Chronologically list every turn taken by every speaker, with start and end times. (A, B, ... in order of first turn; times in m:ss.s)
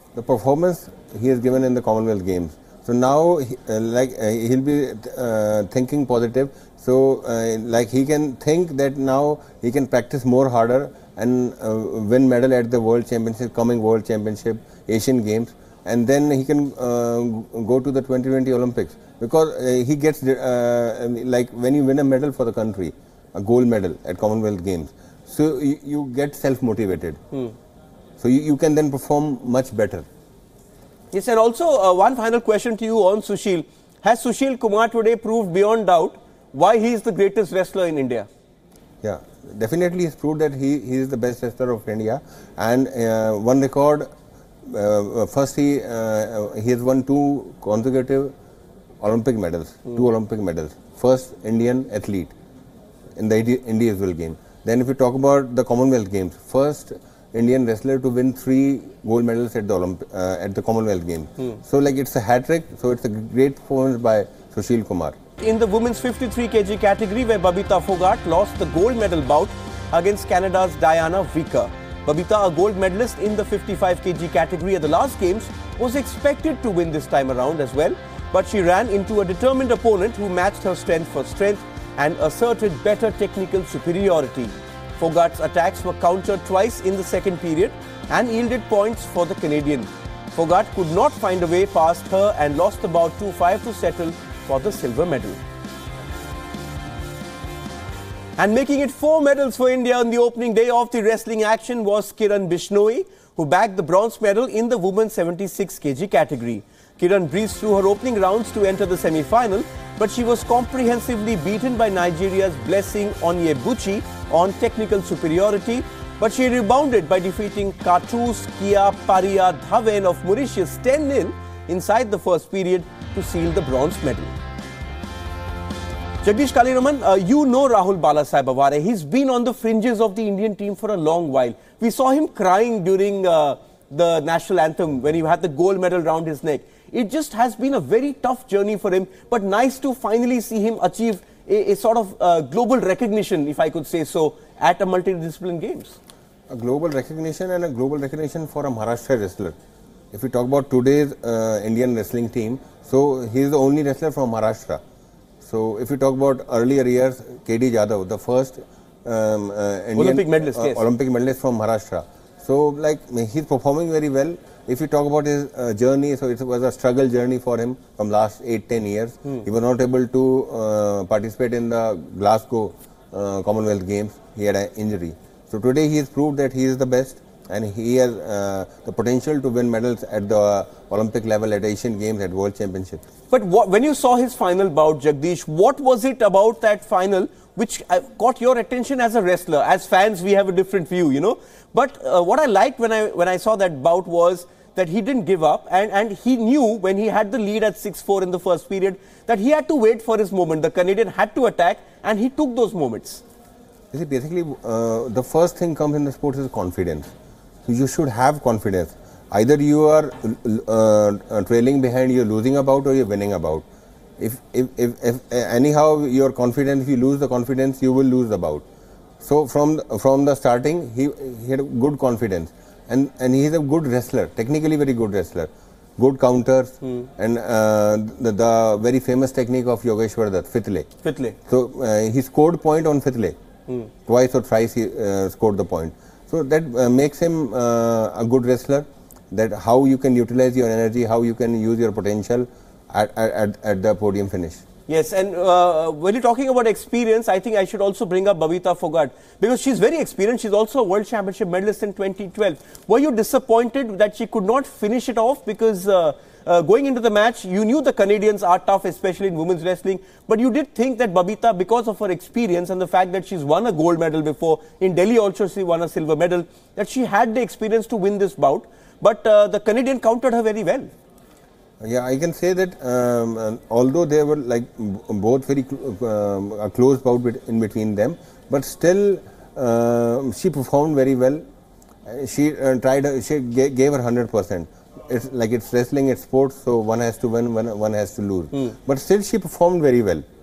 0:00.2-0:27.2 A
0:28.2-0:30.1 A
0:31.1-0:38.3 B
0:39.0-0:44.1 A
0:44.7-0:48.3 A
0:49.0-0:52.3 A
0:53.2-1:05.2 A
1:05.4-1:35.4 B
1:38.4-2:04.3 B
2:06.2-2:26.0 B
2:26.5-2:29.6 A
2:30.1-2:34.8 A
2:35.4-3:03.0 A
2:40.0-2:40.8 B
3:03.3-3:23.2 B
3:23.9-3:27.1 A
3:27.7-3:33.6 A
3:34.2-3:38.6 A
3:39.2-3:50.9 A
3:51.0-3:51.4 B
3:51.5-3:53.4 A
3:54.1-4:04.6 A
4:04.9-4:30.9 B
4:31.8-4:41.4 A
4:42.1-4:50.2 A